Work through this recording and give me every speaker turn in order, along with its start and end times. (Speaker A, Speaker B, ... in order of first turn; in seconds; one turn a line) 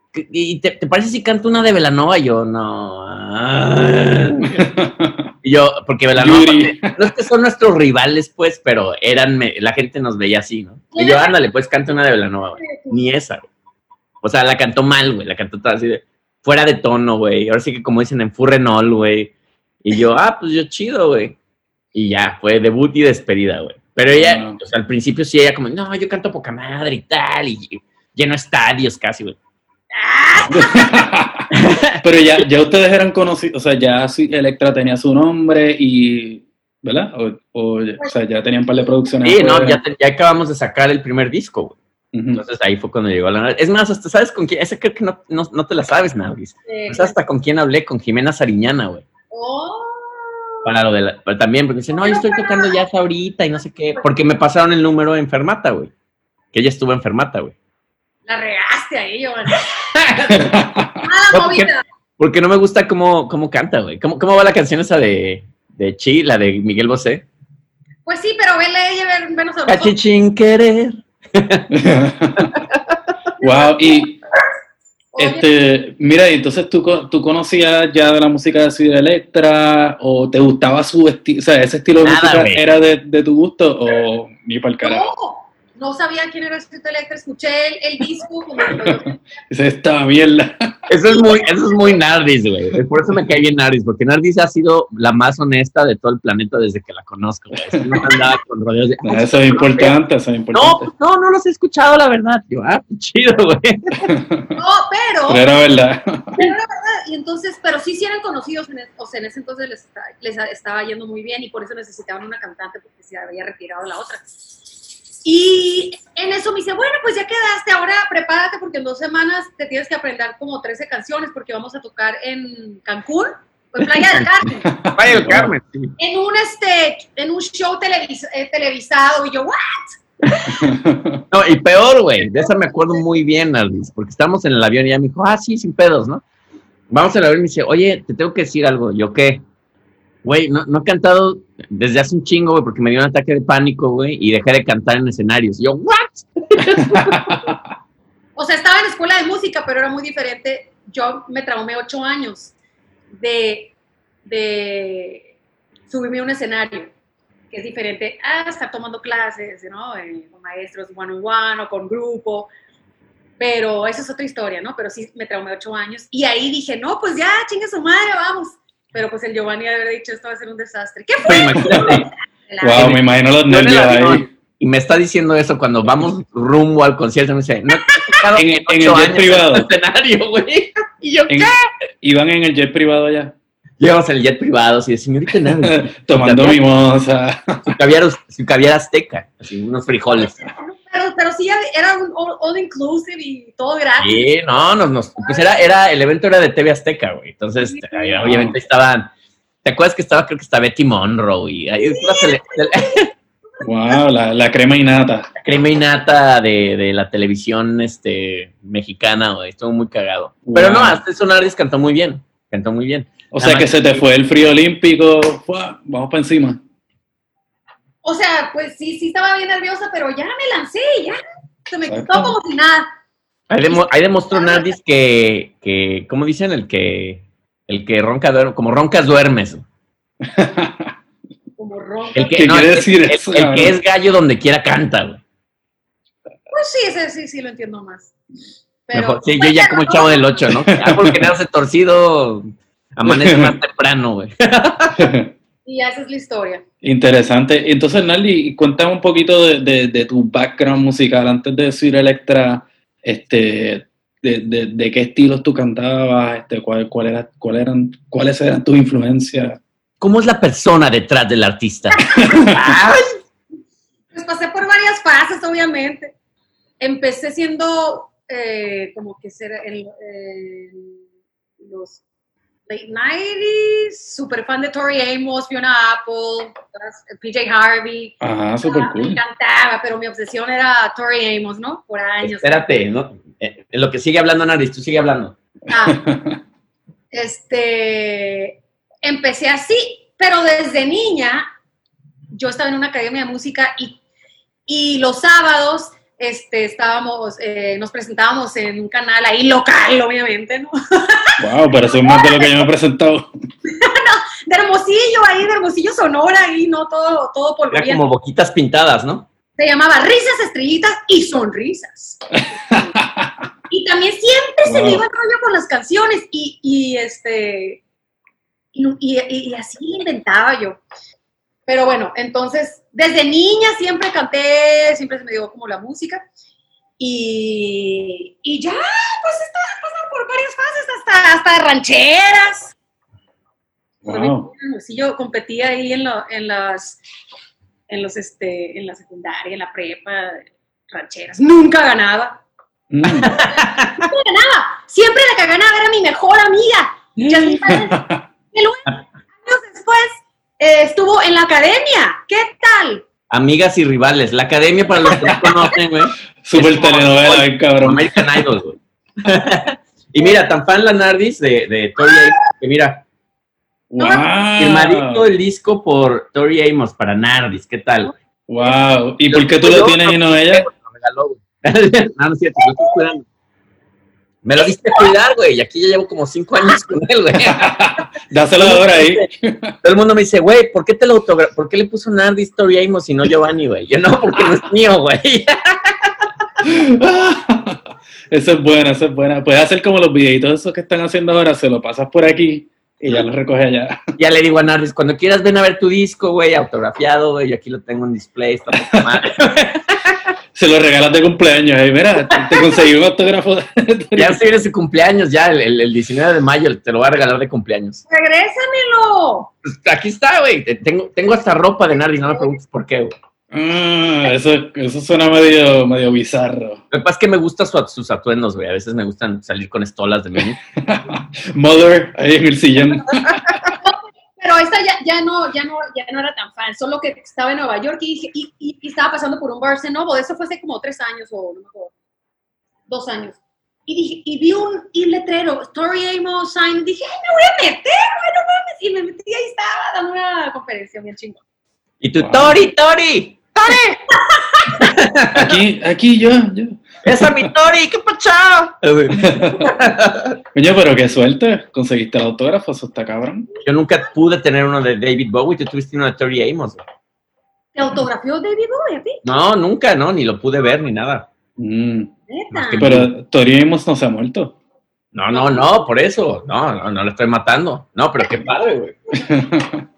Speaker A: 0.1-4.6
Speaker B: 4.4-5.3
Speaker A: 5.4-13.5
Speaker B: 6.2-7.1
Speaker C: 10.9-11.3
Speaker C: 12.6-13.0
Speaker A: 14.2-19.3
Speaker A: 19.8-21.4
Speaker A: 21.9-29.4
Speaker B: 24.1-24.6
Speaker C: 29.9-31.0
Speaker B: 30.5-31.5
Speaker A: 31.5-32.0
Speaker B: 32.0-39.8
Speaker A: 39.2-41.8
Speaker B: 42.1-42.4
Speaker A: 42.3-49.0
Speaker C: 46.6-47.2
Speaker C: 49.3-50.7
Speaker A: 50.6-55.9
Speaker C: 51.9-52.8
Speaker A: 56.5-57.5
Speaker C: 58.3-59.7
Speaker A: 60.0-60.5
Speaker B: 60.3-61.0
Speaker C: 61.0-61.8
Speaker A: 61.3-67.2
Speaker C: 68.0-69.9
Speaker A: 69.7-71.7
Speaker B: 71.7-72.5
Speaker C: 73.4-73.9
Speaker B: 73.4-74.2
Speaker C: 75.1-75.5
Speaker B: 75.2-85.1
Speaker A: 82.0-82.6
Speaker C: 84.8-89.2
Speaker B: 89.5-90.8
Speaker A: 90.9-99.9
Speaker C: 91.2-91.5
Speaker B: 97.7-98.0
Speaker B: 99.0-100.9
Speaker A: 100.5-104.1
Speaker B: 104.0-104.5
Speaker C: 104.5-105.4
Speaker B: 105.3-106.5
Speaker C: 106.4-114.2
Speaker C: 115.2-124.7
Speaker B: 124.6-125.5
Speaker A: 124.9-125.9
Speaker C: 126.0-130.0
Speaker B: 130.5-131.2
Speaker A: 131.3-136.2
Speaker C: 132.2-133.0
Speaker A: 136.9-139.4
Speaker A: 140.2-147.0
Speaker B: 146.9-147.6
Speaker C: 148.3-152.5
Speaker C: 153.1-155.2
Speaker C: 155.9-156.9
Speaker C: 157.5-162.5
Speaker C: 163.4-172.9
Speaker A: 171.2-172.0
Speaker B: 171.6-172.0
Speaker B: 172.6-174.3
Speaker A: 172.7-181.6
Speaker B: 178.3-179.7
Speaker B: 181.3-183.3
Speaker A: 183.8-186.6
Speaker B: 185.6-187.7
Speaker A: 187.7-190.4
Speaker C: 190.2-194.2
Speaker A: 194.0-199.1
Speaker C: 195.2-195.6
Speaker C: 197.7-198.2
Speaker B: 198.2-198.6
Speaker A: 199.6-203.1
Speaker C: 201.9-203.1
Speaker C: 203.6-204.0
Speaker B: 203.6-205.3
Speaker A: 205.4-214.0
Speaker B: 210.4-211.0
Speaker B: 213.3-216.6
Speaker C: 218.0-222.9
Speaker B: 221.9-222.3
Speaker A: 223.5-229.6
Speaker C: 223.7-224.7
Speaker B: 230.2-230.9
Speaker C: 231.6-232.4
Speaker A: 232.1-235.2
Speaker B: 232.3-233.8
Speaker C: 236.5-238.1
Speaker C: 238.9-240.4
Speaker A: 238.9-245.1
Speaker B: 240.7-241.2
Speaker B: 243.0-243.6
Speaker B: 244.9-245.3
Speaker C: 245.6-246.6
Speaker B: 246.8-259.6
Speaker A: 260.0-263.1
Speaker B: 262.2-262.5
Speaker C: 264.1-266.1
Speaker C: 266.8-271.0
Speaker C: 271.6-272.0
Speaker C: 272.7-282.6
Speaker B: 278.2-279.2
Speaker A: 282.2-285.4
Speaker C: 285.7-286.0
Speaker B: 285.9-286.4
Speaker C: 287.1-291.5
Speaker C: 292.3-294.0
Speaker C: 294.7-301.4
Speaker B: 301.4-303.3
Speaker C: 302.0-302.7
Speaker C: 303.7-308.0
Speaker A: 307.7-309.3
Speaker C: 309.6-312.9
Speaker B: 312.7-313.3
Speaker C: 313.7-317.8
Speaker B: 314.6-315.0
Speaker C: 318.7-320.8
Speaker C: 321.7-326.2
Speaker C: 327.0-332.7
Speaker B: 334.0-334.5
Speaker C: 334.1-337.0
Speaker C: 337.9-342.4
Speaker B: 342.9-343.4
Speaker A: 343.2-344.0
Speaker C: 343.4-348.0
Speaker A: 347.2-347.8
Speaker B: 347.7-348.2
Speaker C: 348.5-348.9
Speaker C: 349.4-353.0
Speaker A: 353.3-363.0
Speaker B: 355.1-355.5
Speaker B: 356.4-358.5
Speaker B: 363.9-365.2
Speaker A: 364.6-368.1
Speaker C: 368.1-368.7
Speaker B: 368.5-370.7
Speaker A: 369.3-373.2
Speaker C: 372.6-373.0
Speaker A: 374.4-377.8
Speaker C: 374.6-375.1
Speaker B: 377.5-379.7
Speaker A: 378.6-379.3
Speaker A: 379.8-386.1
Speaker B: 386.6-394.0
Speaker A: 394.2-400.2
Speaker B: 398.9-399.2
Speaker B: 400.5-404.4
Speaker A: 404.1-408.0
Speaker C: 408.1-409.5
Speaker A: 409.6-413.1
Speaker C: 412.3-412.6
Speaker B: 413.5-416.8
Speaker A: 416.9-420.6
Speaker B: 420.8-423.4
Speaker C: 423.8-431.9
Speaker C: 432.9-441.4
Speaker A: 442.0-444.0
Speaker B: 442.2-442.6
Speaker C: 444.1-444.8
Speaker A: 444.8-445.5
Speaker B: 445.3-447.5
Speaker A: 447.0-450.4
Speaker B: 449.2-449.6
Speaker B: 450.5-453.5
Speaker A: 453.6-456.8
Speaker C: 457.7-459.2
Speaker A: 459.2-461.3
Speaker B: 461.6-462.1
Speaker C: 462.3-462.9
Speaker A: 462.5-463.1
Speaker B: 462.8-464.5
Speaker A: 465.1-468.9
Speaker C: 465.3-465.8
Speaker C: 468.2-469.3
Speaker B: 469.2-469.8